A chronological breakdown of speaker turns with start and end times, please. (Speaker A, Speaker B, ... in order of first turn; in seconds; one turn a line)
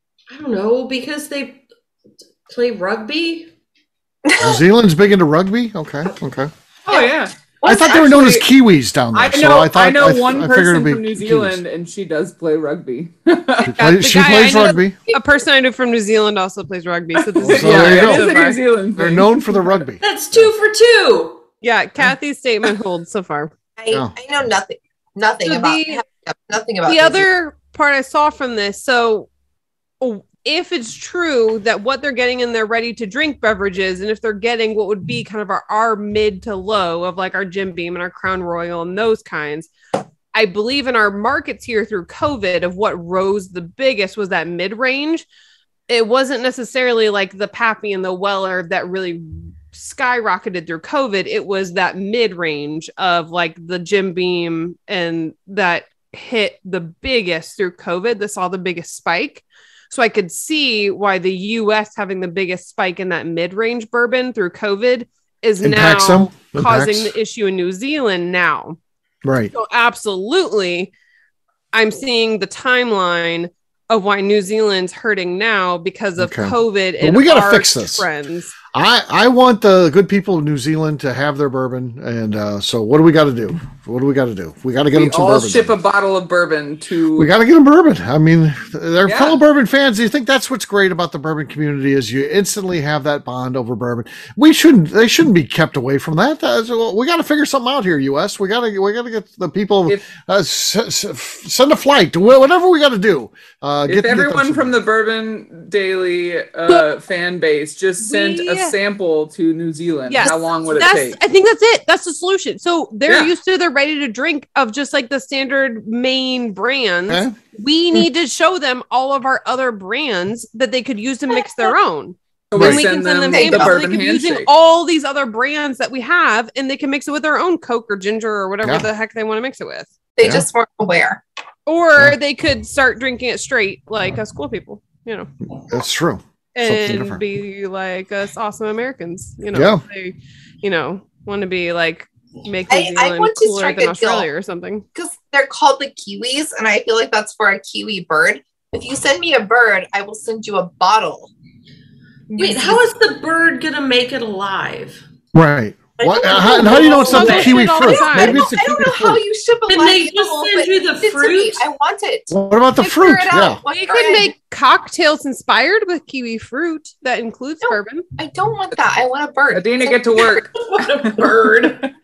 Speaker A: 0.3-1.6
Speaker A: 2.5-3.5
Speaker B: 4.2-4.6
Speaker C: 4.4-6.5
Speaker D: 6.8-8.5
Speaker C: 7.6-11.6
Speaker D: 9.1-13.9
Speaker C: 13.6-15.0
Speaker E: 13.8-18.6
Speaker D: 17.2-19.8
Speaker C: 17.4-18.3
Speaker C: 18.9-20.5
Speaker A: 20.0-21.4
Speaker E: 21.6-23.5
Speaker B: 23.8-27.2
Speaker E: 25.4-26.0
Speaker E: 26.9-29.3
Speaker E: 30.0-39.7
Speaker E: 40.3-45.2
Speaker E: 45.9-68.8
Speaker C: 65.6-67.1
Speaker C: 69.2-69.5
Speaker E: 69.5-70.9
Speaker E: 71.7-78.5
Speaker C: 76.2-78.1
Speaker C: 78.7-85.8
Speaker D: 84.9-87.3
Speaker C: 87.2-104.7
Speaker D: 89.0-89.4
Speaker D: 103.9-111.2
Speaker E: 108.0-108.7
Speaker E: 110.1-129.9
Speaker C: 117.1-117.3
Speaker D: 122.5-124.5
Speaker C: 122.6-122.8
Speaker B: 123.3-123.8
Speaker C: 128.6-128.9
Speaker B: 130.2-131.2
Speaker E: 131.7-135.3
Speaker C: 135.7-137.2
Speaker E: 136.5-144.8
Speaker C: 139.5-139.8
Speaker B: 142.7-144.3
Speaker B: 144.9-151.3
Speaker B: 152.3-152.9
Speaker A: 152.4-155.0
Speaker C: 155.3-159.2
Speaker B: 156.0-164.3
Speaker E: 156.2-158.6
Speaker A: 159.7-161.6
Speaker C: 162.3-163.6
Speaker E: 163.7-168.1
Speaker B: 167.6-170.4
Speaker D: 169.5-171.9
Speaker A: 170.5-171.9